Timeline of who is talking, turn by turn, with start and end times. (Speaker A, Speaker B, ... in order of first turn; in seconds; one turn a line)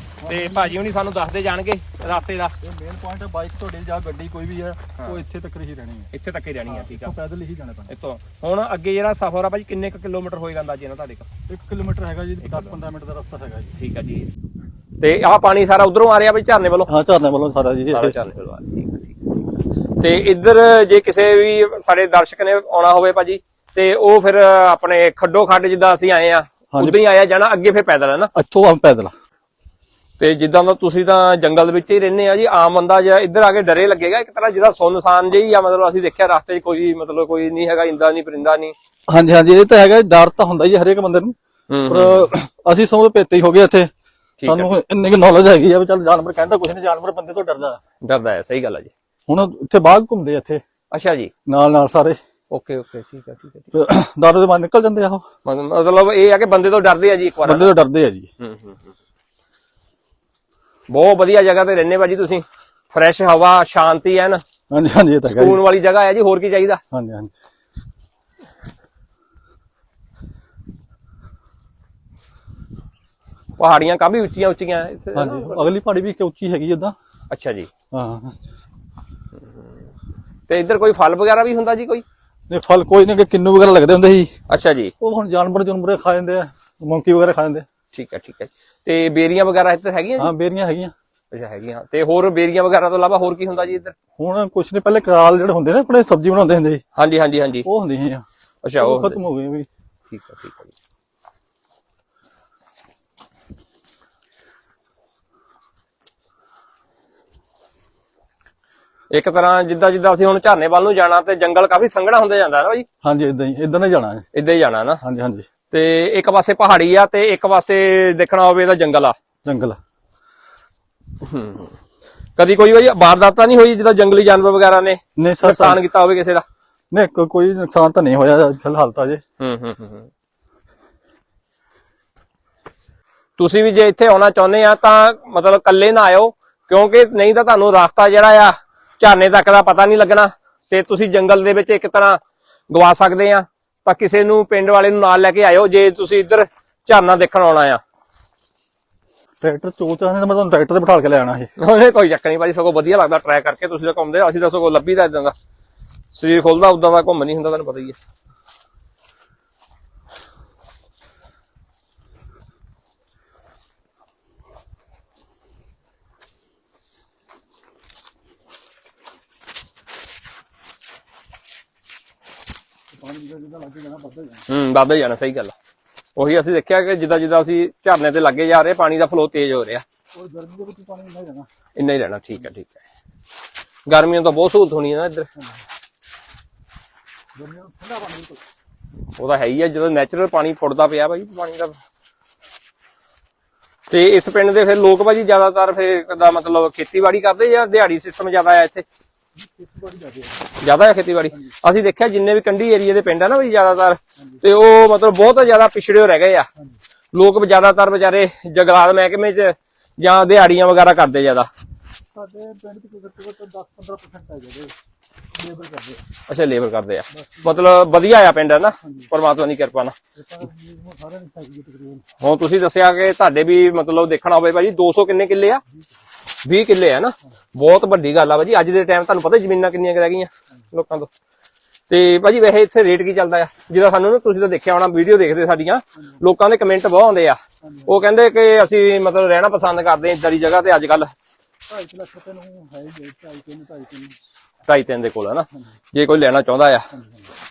Speaker A: 0.2-0.8
Speaker B: 0.3-2.5
Speaker A: 2.0-6.1
Speaker B: 5.0-5.2
Speaker B: 6.1-7.1
Speaker A: 6.6-7.9
Speaker B: 7.9-11.3
Speaker A: 11.5-13.7
Speaker B: 12.4-12.8
Speaker B: 13.8-14.3
Speaker B: 15.0-16.9
Speaker A: 16.9-18.1
Speaker B: 17.9-28.3
Speaker A: 26.7-27.0
Speaker A: 28.3-29.1
Speaker B: 30.2-38.7
Speaker A: 39.1-41.3
Speaker B: 41.7-42.3
Speaker A: 41.9-43.9
Speaker B: 44.4-44.7
Speaker A: 44.4-47.8
Speaker B: 48.0-48.9
Speaker A: 49.3-50.6
Speaker B: 50.9-51.3
Speaker A: 51.5-52.2
Speaker B: 52.5-53.7
Speaker A: 53.7-55.2
Speaker B: 55.4-57.7
Speaker A: 57.4-58.3
Speaker B: 58.4-58.9
Speaker B: 60.9-64.4
Speaker A: 64.7-65.6
Speaker B: 65.2-66.8
Speaker A: 66.9-67.3
Speaker B: 73.6-75.7
Speaker A: 75.1-76.9
Speaker B: 77.3-77.7
Speaker A: 77.9-78.5
Speaker B: 80.5-82.0
Speaker A: 82.5-84.3
Speaker B: 84.5-84.9
Speaker A: 85.0-87.7
Speaker B: 87.9-90.3
Speaker A: 90.2-90.9
Speaker B: 91.3-93.9
Speaker A: 94.2-96.8
Speaker B: 97.0-97.7
Speaker A: 97.6-98.2
Speaker B: 98.6-99.2
Speaker A: 98.8-99.7
Speaker B: 100.1-100.7
Speaker B: 109.1-112.8
Speaker A: 113.0-114.3
Speaker B: 114.3-115.0
Speaker A: 115.0-115.5
Speaker B: 115.7-119.1
Speaker A: 119.4-119.8
Speaker B: 121.2-121.7
Speaker B: 122.4-126.4
Speaker A: 125.2-125.8
Speaker A: 126.9-129.2
Speaker B: 129.4-130.1
Speaker B: 133.4-142.2
Speaker B: 142.7-147.8
Speaker A: 149.4-151.5
Speaker B: 151.6-155.3
Speaker B: 156.1-157.9
Speaker A: 172.9-174.4
Speaker B: 174.5-175.5
Speaker B: 176.2-179.8
Speaker A: 180.1-181.5
Speaker B: 181.8-182.8
Speaker B: 183.9-185.3
Speaker A: 185.4-185.6
Speaker A: 187.4-188.4
Speaker B: 189.2-191.8
Speaker B: 193.9-198.8
Speaker A: 199.4-200.5
Speaker B: 200.6-206.5
Speaker B: 207.1-211.5
Speaker A: 212.1-214.7
Speaker A: 215.3-216.0
Speaker B: 216.3-219.9
Speaker A: 217.1-217.8
Speaker A: 218.8-219.1
Speaker A: 220.1-222.0
Speaker B: 222.2-225.6
Speaker B: 226.4-231.1
Speaker B: 231.9-241.1
Speaker A: 237.6-238.0
Speaker A: 241.7-244.2
Speaker B: 244.7-246.9
Speaker A: 246.9-247.3